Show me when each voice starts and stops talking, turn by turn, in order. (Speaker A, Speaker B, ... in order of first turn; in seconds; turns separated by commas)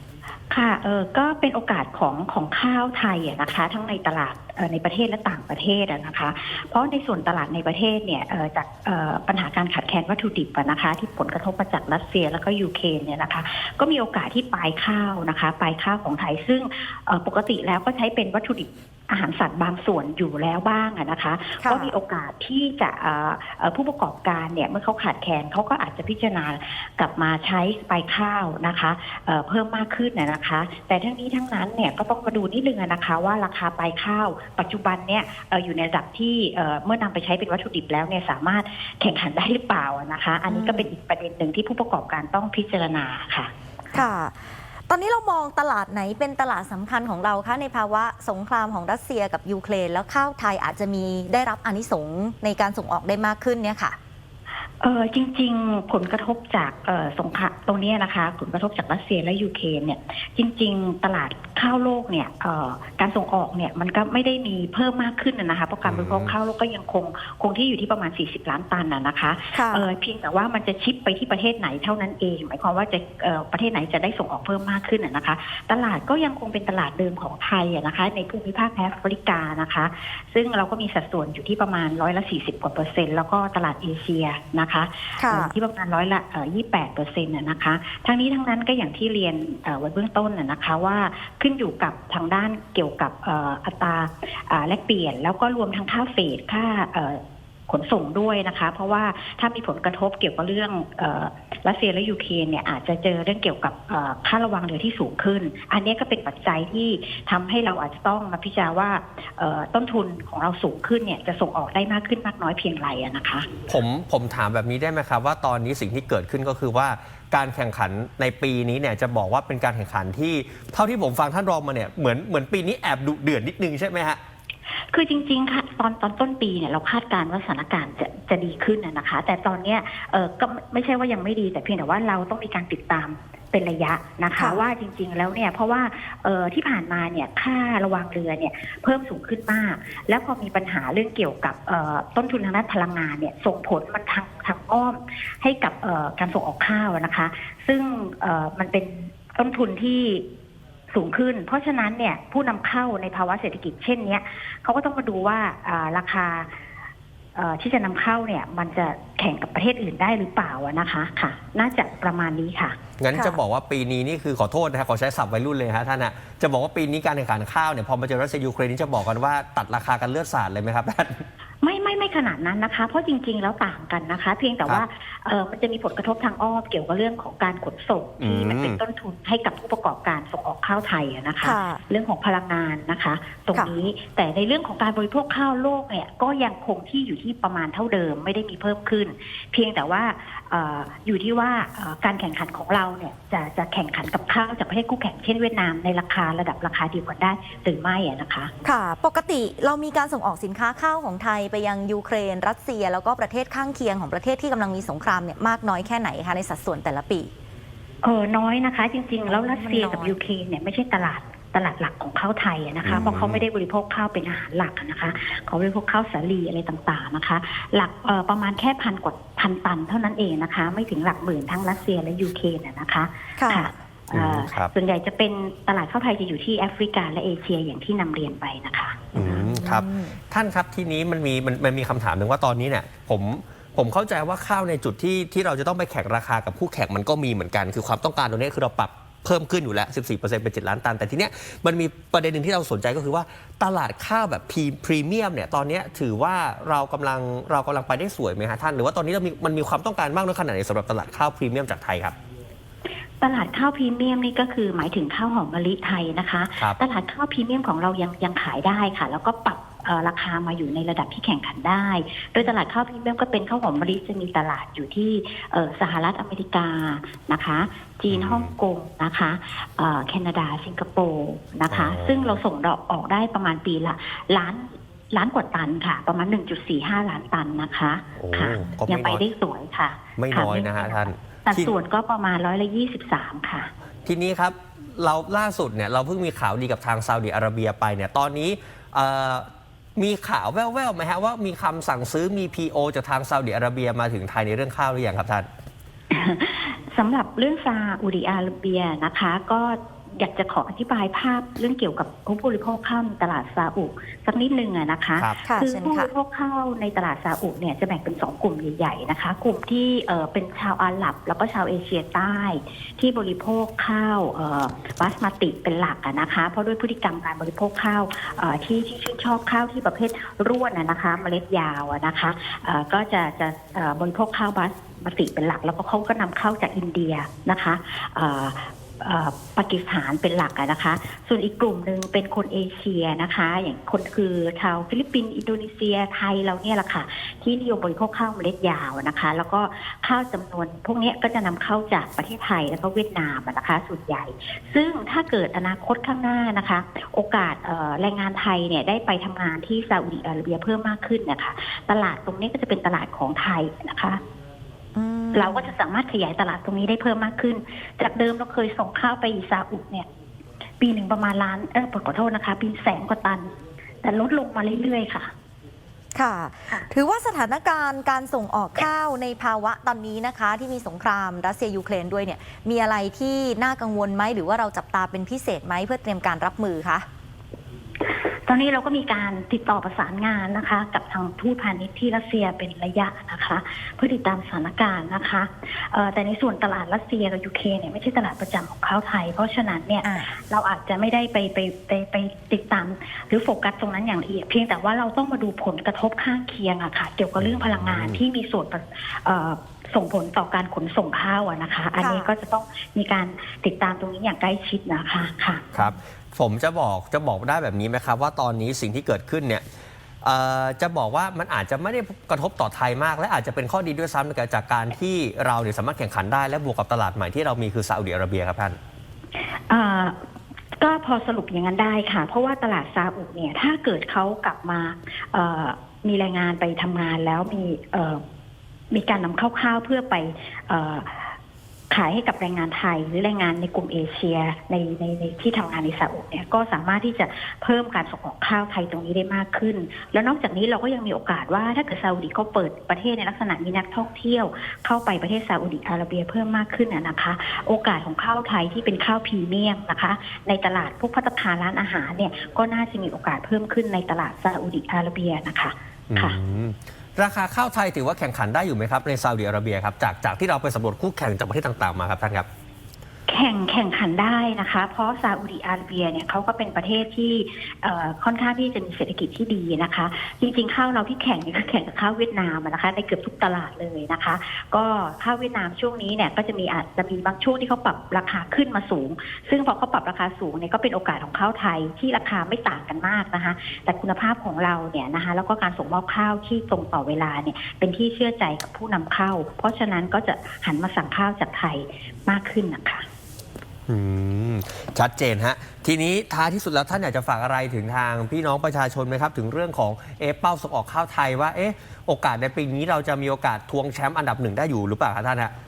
Speaker A: 0.5-43.5, Speaker B: 21.6-21.9, Speaker B: 40.5-40.9, Speaker B: 43.9-44.4, Speaker B: 44.9-54.0, Speaker A: 54.8-113.5, Speaker C: 65.8-66.4, Speaker B: 69.5-69.9, Speaker B: 85.2-85.5, Speaker C: 113.7-124.2, Speaker A: 124.9-150.2, Speaker B: 134.3-134.6, Speaker A: 150.9-156.5, Speaker A: 157.3-162.8, Speaker C: 163.0-171.2, Speaker B: 163.1-163.4, Speaker A: 171.6-198.5, Speaker C: 178.2-178.8, Speaker B: 181.4-181.8, Speaker B: 198.6-207.3, Speaker A: 208.0-229.4, Speaker B: 209.3-210.2, Speaker C: 212.8-213.4, Speaker B: 212.9-213.2, Speaker B: 223.4-223.7, Speaker C: 224.1-224.7, Speaker C: 229.1-252.2, Speaker B: 229.2-230.2, Speaker A: 253.2-283.7, Speaker C: 268.1-268.5, Speaker C: 271.7-272.4, Speaker C: 278.2-279.2, Speaker C: 280.2-281.7, Speaker C: 284.1-295.5, Speaker A: 296.1-354.2, Speaker B: 305.5-306.1, Speaker B: 354.9-355.7, Speaker A: 355.3-360.1, Speaker A: 360.8-363.5, Speaker A: 364.0-365.3, Speaker B: 366.1-377.1, Speaker A: 378.1-405.7, Speaker C: 397.4-398.2, Speaker B: 402.0-402.3, Speaker C: 405.7-409.6, Speaker C: 410.2-418.8, Speaker A: 419.5-420.1, Speaker A: 420.8-428.2, Speaker A: 428.9-431.4, Speaker A: 431.9-456.4, Speaker C: 456.1-462.5, Speaker A: 463.3-493.1, Speaker C: 493.9-505.5